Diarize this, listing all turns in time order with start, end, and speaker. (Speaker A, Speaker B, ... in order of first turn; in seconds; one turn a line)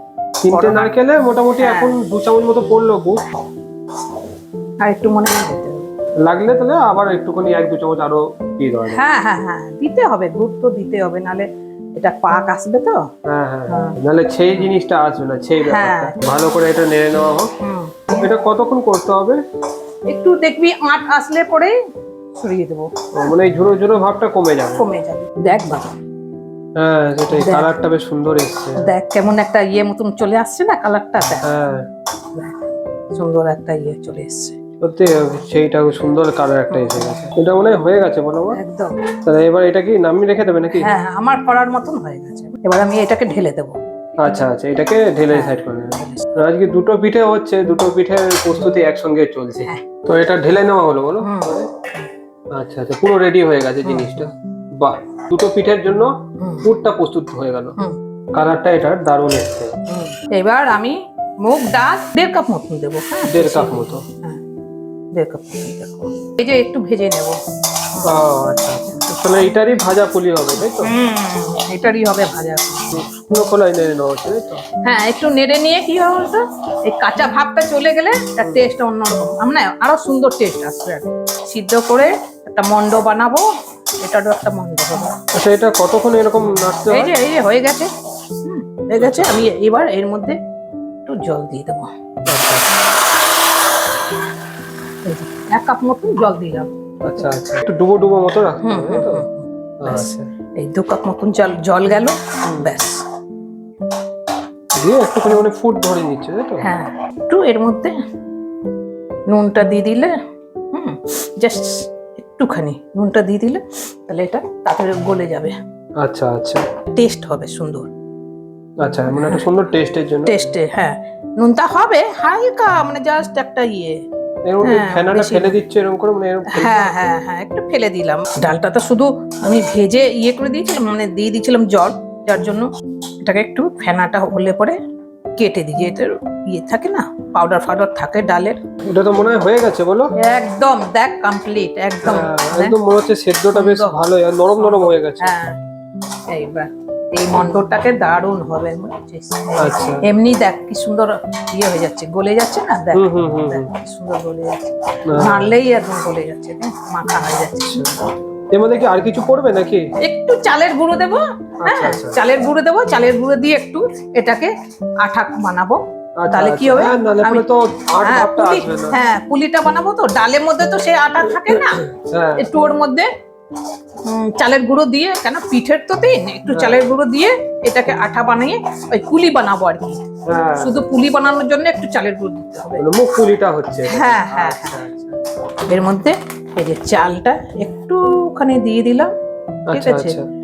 Speaker A: 0.4-3.2
Speaker B: 0.5-0.9
Speaker B: 1.6-1.9
Speaker B: 4.8-5.9
Speaker A: 6.2-9.0
Speaker B: 8.9-13.0
Speaker A: 13.3-17.5
Speaker B: 13.7-14.0
Speaker B: 15.7-16.2
Speaker B: 17.6-18.3
Speaker A: 18.1-19.4
Speaker B: 20.1-21.8
Speaker B: 22.4-22.9
Speaker A: 23.1-24.8
Speaker B: 24.8-26.0
Speaker A: 26.8-28.9
Speaker B: 27.3-27.7
Speaker B: 28.8-31.4
Speaker A: 31.4-31.9
Speaker B: 32.3-32.6
Speaker B: 33.1-34.6
Speaker A: 34.8-38.6
Speaker B: 36.7-37.2
Speaker B: 38.5-39.0
Speaker A: 39.2-40.9
Speaker B: 40.8-44.2
Speaker A: 44.2-51.7
Speaker B: 45.3-46.3
Speaker B: 51.2-52.1
Speaker A: 52.5-56.1
Speaker B: 53.8-54.2
Speaker B: 56.4-56.7
Speaker A: 56.6-57.8
Speaker A: 58.4-59.8
Speaker B: 59.9-64.4
Speaker A: 63.3-64.0
Speaker B: 65.1-67.4
Speaker A: 68.0-70.9
Speaker B: 70.6-73.1
Speaker A: 72.9-74.6
Speaker B: 74.8-83.5
Speaker B: 84.0-85.2
Speaker A: 85.3-87.1
Speaker B: 86.4-90.4
Speaker A: 89.0-89.5
Speaker B: 91.1-91.9
Speaker A: 92.3-92.7
Speaker B: 95.0-97.3
Speaker A: 97.0-99.2
Speaker B: 98.6-103.0
Speaker A: 99.8-100.3
Speaker A: 102.4-102.7
Speaker A: 104.8-106.7
Speaker B: 106.6-108.0
Speaker B: 109.3-110.1
Speaker B: 110.7-115.6
Speaker A: 116.0-116.6
Speaker B: 117.0-117.9
Speaker A: 118.8-120.5
Speaker B: 119.1-119.5
Speaker B: 120.3-124.0
Speaker A: 124.5-126.9
Speaker B: 124.6-125.6
Speaker B: 126.5-132.7
Speaker B: 133.2-134.8
Speaker B: 135.4-138.6
Speaker A: 138.8-140.1
Speaker B: 140.2-142.8
Speaker A: 142.0-145.3
Speaker B: 143.5-144.0
Speaker B: 144.6-145.6
Speaker B: 146.3-158.0
Speaker A: 149.6-150.0
Speaker A: 152.9-153.7
Speaker A: 155.1-155.5
Speaker A: 157.7-157.9
Speaker A: 158.5-159.9
Speaker B: 160.0-167.5
Speaker A: 161.6-162.2
Speaker A: 166.2-169.0
Speaker B: 168.0-173.1
Speaker A: 171.5-172.5
Speaker B: 174.0-180.0
Speaker A: 176.5-176.9
Speaker A: 180.3-180.8
Speaker B: 180.6-182.8
Speaker A: 182.8-185.2
Speaker B: 183.9-184.8
Speaker B: 185.7-189.1
Speaker A: 189.7-190.3
Speaker B: 189.7-190.2